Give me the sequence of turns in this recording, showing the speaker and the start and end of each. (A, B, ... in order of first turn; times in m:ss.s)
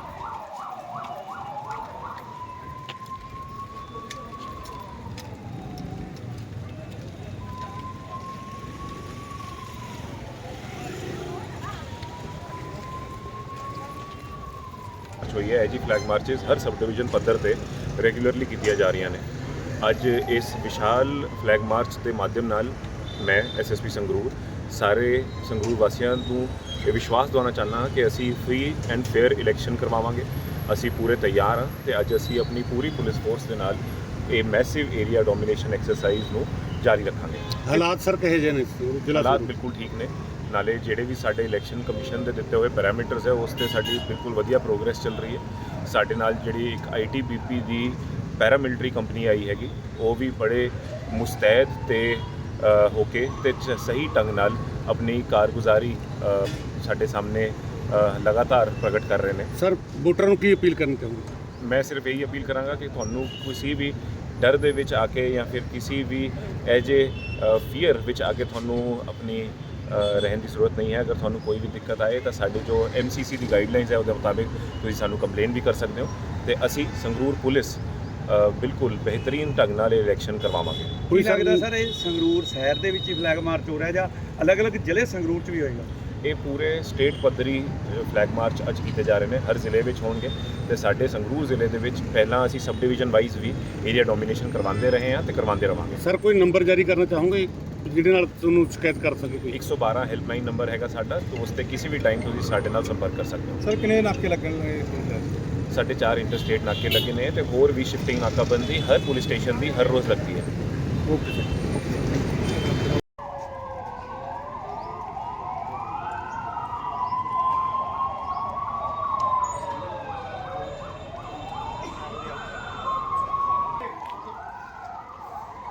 0:15.2-0:19.2 A
0:19.8-0:37.7 A
0:37.6-0:39.5 B
0:39.1-0:59.5 A
0:59.6-1:01.3 B
1:01.6-1:21.0 A
1:21.1-1:21.6 B
1:21.1-1:25.9 C
1:26.2-1:36.0 A
1:36.0-1:39.6 B
1:39.5-1:43.6 A
1:43.6-1:45.3 C
1:45.7-1:50.5 A
1:51.1-1:51.5 B